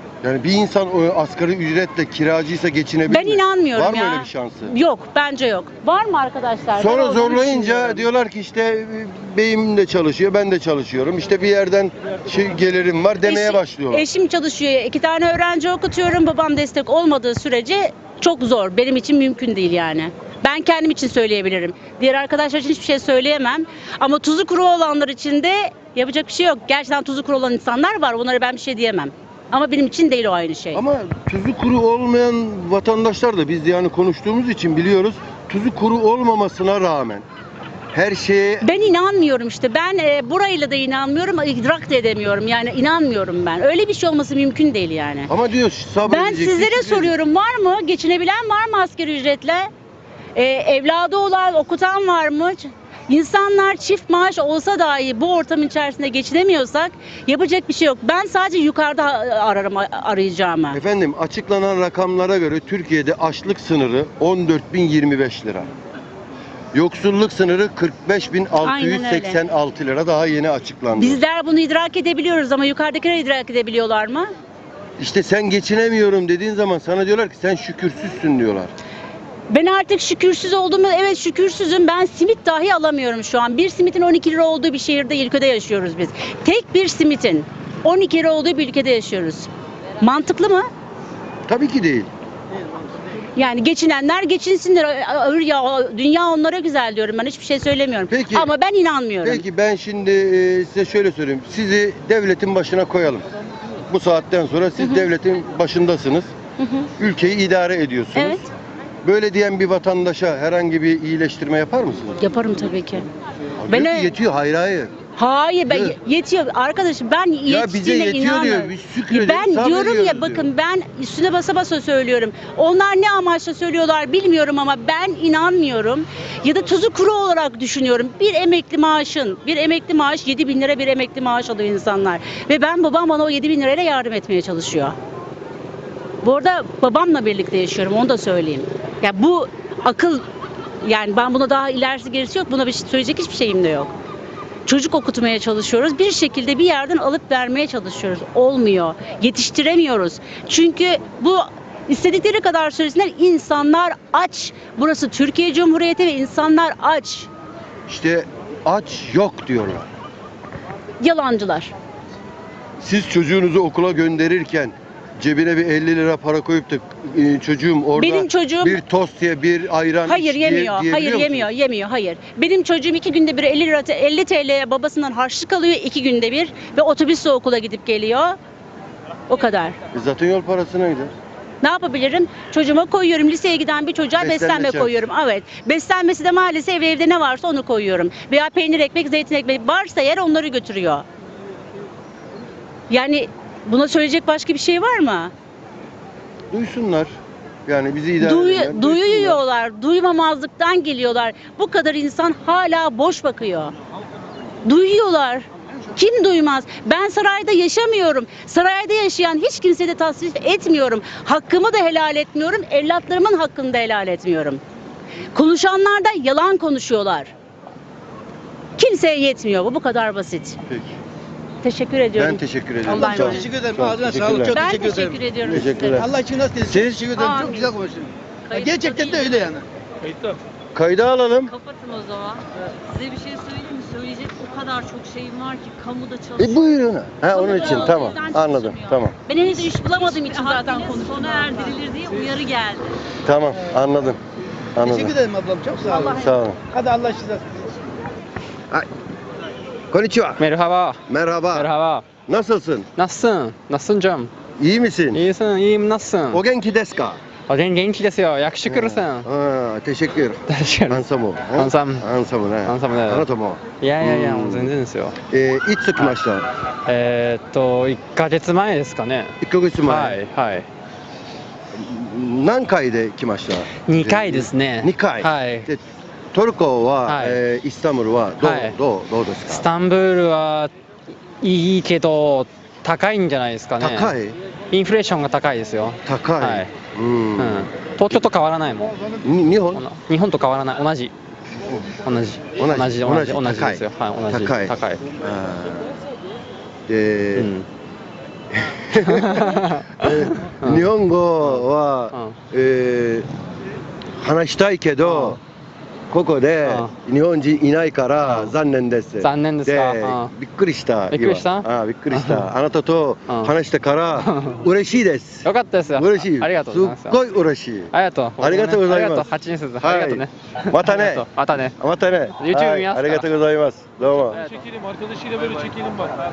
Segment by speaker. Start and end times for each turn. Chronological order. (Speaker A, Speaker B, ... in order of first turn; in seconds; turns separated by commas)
Speaker A: 0.2-4.7, Speaker B: 3.1-8.0, Speaker A: 6.8-14.1, Speaker B: 13.2-30.8, Speaker A: 30.7-37.2, Speaker A: 37.9-38.7, Speaker B: 38.6-45.3, Speaker A: 45.3-47.1, Speaker B: 46.1-49.7, Speaker B: 50.4-60.8, Speaker A: 60.7-65.7, Speaker A: 66.7-71.2, Speaker B: 68.6-69.4, Speaker B: 71.0-74.3, Speaker A: 75.0-78.7, Speaker B: 79.5-89.5, Speaker B: 90.0-90.7, Speaker A: 91.5-92.1, Speaker B: 93.4-99.4, Speaker A: 98.1-98.5, Speaker A: 99.2-103.2, Speaker A: 103.9-106.3, Speaker B: 104.8-105.1, Speaker B: 106.6-106.9, Speaker A: 107.0-108.4, Speaker B: 108.1-108.5, Speaker A: 109.0-112.2, Speaker B: 112.2-113.1, Speaker A: 113.6-114.9, Speaker B: 113.7-114.1, Speaker B: 115.2-134.9, Speaker A: 115.7-115.9, Speaker A: 117.5-120.5, Speaker B: 136.2-140.2, Speaker B: 140.8-143.9, Speaker B: 144.7-157.3, Speaker A: 157.9-159.9, Speaker B: 161.0-161.7, Speaker A: 162.8-171.5, Speaker B: 168.0-168.8, Speaker B: 170.1-178.4, Speaker B: 179.3-179.8, Speaker A: 179.9-181.1, Speaker B: 181.6-191.1, Speaker A: 184.2-185.0, Speaker B: 192.9-195.3, Speaker A: 196.5-197.1, Speaker A: 197.7-199.4, Speaker B: 198.2-203.7, Speaker B: 204.6-214.6, Speaker B: 215.3-217.3, Speaker B: 218.8-220.6, Speaker A: 220.7-220.9, Speaker B: 221.6-223.4, Speaker A: 222.2-224.6, Speaker C: 222.9-230.4, Speaker B: 224.5-226.1, Speaker A: 225.4-226.1, Speaker A: 226.6-227.0, Speaker B: 227.2-227.5, Speaker D: 227.2-227.6, Speaker B: 228.5-229.4, Speaker D: 228.5-229.3, Speaker A: 230.7-231.5, Speaker D: 231.4-236.7, Speaker A: 236.4-239.1, Speaker B: 237.3-241.9, Speaker D: 237.3-238.8, Speaker D: 239.6-242.9, Speaker A: 243.2-244.2, Speaker A: 244.8-245.2, Speaker C: 244.8-247.6, Speaker A: 246.0-246.6, Speaker A: 249.9-250.4, Speaker E: 250.4-251.0, Speaker A: 251.1-251.7, Speaker E: 251.5-252.1, Speaker A: 252.2-252.9, Speaker E: 253.0-254.3, Speaker A: 254.6-255.2, Speaker E: 255.1-256.4, Speaker A: 256.3-257.2, Speaker E: 257.5-259.2, Speaker A: 258.6-264.7, Speaker E: 260.5-261.0, Speaker E: 261.6-262.1, Speaker E: 262.6-263.2, Speaker E: 263.8-265.1, Speaker A: 265.3-266.5, Speaker E: 266.9-270.6, Speaker A: 269.4-270.1, Speaker A: 271.8-275.8, Speaker E: 273.9-275.7, Speaker A: 276.3-279.6, Speaker E: 277.1-277.4, Speaker E: 278.4-278.8, Speaker E: 279.5-280.7, Speaker E: 281.4-284.1, Speaker A: 283.8-284.4, Speaker E: 284.7-286.7, Speaker A: 286.1-288.2, Speaker E: 287.4-288.9, Speaker A: 289.2-289.8, Speaker E: 289.7-291.1, Speaker E: 292.0-295.0, Speaker A: 292.6-295.9, Speaker A: 296.9-297.5, Speaker E: 297.4-297.6, Speaker A: 298.5-303.3, Speaker E: 299.0-300.8, Speaker E: 301.4-302.4, Speaker A: 304.2-305.4, Speaker E: 305.0-305.4, Speaker A: 306.1-321.2, Speaker E: 306.6-306.9, Speaker E: 308.2-308.6, Speaker E: 309.2-310.3, Speaker E: 311.1-312.5, Speaker E: 314.2-314.6, Speaker E: 315.4-317.2, Speaker E: 317.9-321.7, Speaker A: 321.8-324.4, Speaker E: 322.4-323.3